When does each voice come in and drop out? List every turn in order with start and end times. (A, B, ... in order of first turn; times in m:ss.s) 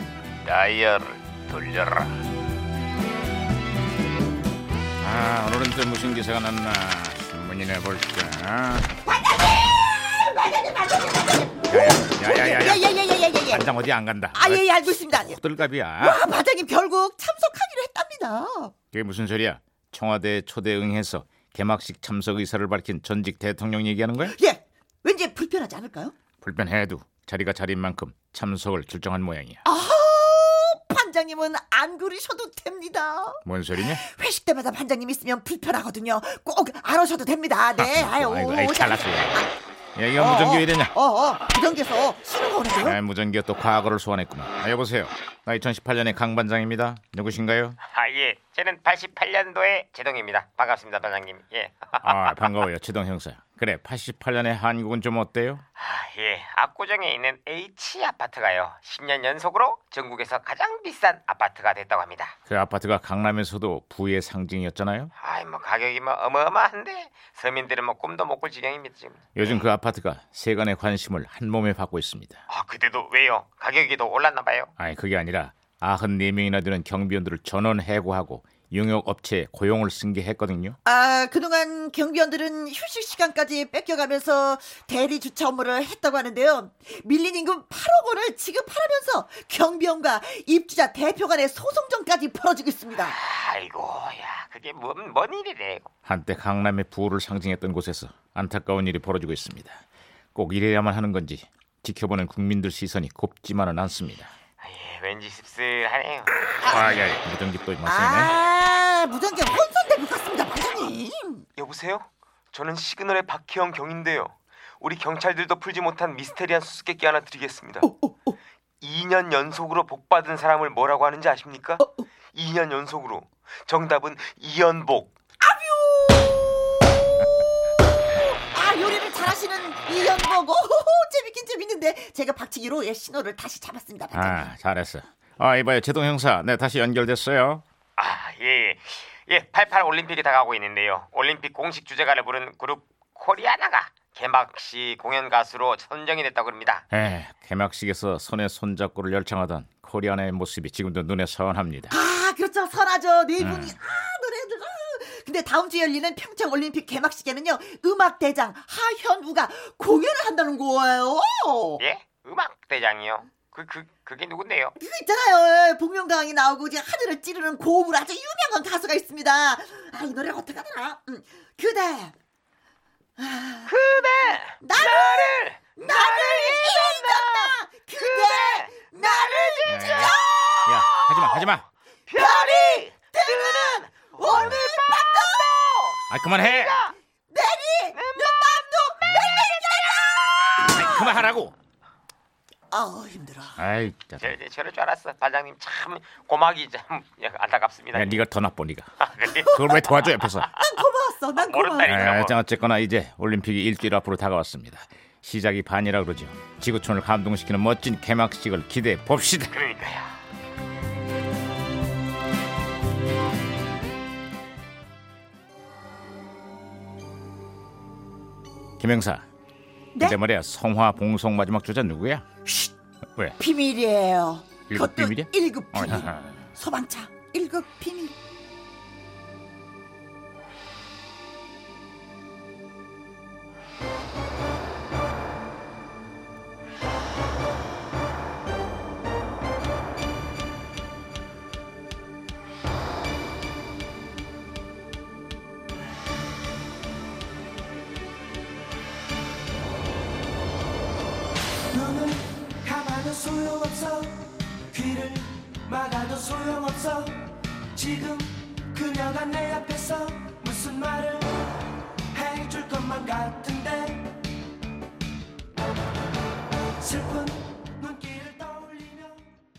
0:00.4-0:02.2 A
0:05.0-0:08.9 A
0:09.1-0:13.7 B
0:11.6-0:16.2 A
0:14.3-0:15.4 B
0:16.0-0:18.8 B
0:18.9-0:24.4 A
0:24.2-0:26.1 B
0:26.4-0:29.6 A
0:29.6-0:39.5 B
0:33.4-0:34.0 A
0:37.8-0:40.9 A
0:40.2-0:43.0 B
0:42.8-0:47.8 A
0:47.8-0:52.7 C
0:52.0-0:55.6 A
0:55.8-1:02.4 C
1:02.5-1:05.1 A
1:05.2-1:09.7 C
1:09.4-1:12.4 A
1:12.5-1:14.7 C
1:14.8-1:20.8 A
1:20.8-1:33.2 B
1:33.0-1:35.9 C
1:36.0-1:39.8 A
1:40.4-1:44.3 A
1:44.6-1:46.9 C
1:46.7-1:48.3 A
1:47.8-1:51.4 B
1:51.6-1:57.9 C
1:57.8-1:58.3 B
1:58.8-2:05.1 C
2:05.4-2:06.6 B
2:08.1-2:14.5 B
2:14.1-2:17.6 A
2:18.0-2:26.9 C
2:26.9-2:32.0 A
2:31.9-2:41.8 B
2:33.4-2:33.8 A
2:41.8-2:44.8 C
2:44.8-2:52.1 B
2:53.2-2:53.7 B
2:53.7-3:07.0 C
2:54.6-3:00.2 B
2:59.7-3:01.6 A
3:02.1-3:05.5 B
3:06.1-3:06.8 A
3:07.3-3:11.2 B
3:07.9-3:08.5 C
3:10.8-3:11.6 A
3:12.7-3:13.6 B
3:13.6-3:14.3 A
3:14.2-3:18.2 C
3:17.9-3:18.9 A
3:19.0-3:20.8 C
3:19.2-3:19.7 B
3:19.5-3:20.5 A
3:20.5-3:22.1 B
3:21.3-3:22.4 C
3:21.8-3:29.5 A
3:29.5-3:30.2 C
3:38.8-3:39.2 A
3:40.0-3:42.2 A
3:43.4-3:48.1 B
3:44.7-3:46.4 A
4:11.7-4:21.4 D
4:22.1-4:24.2 D
4:26.8-4:29.3 D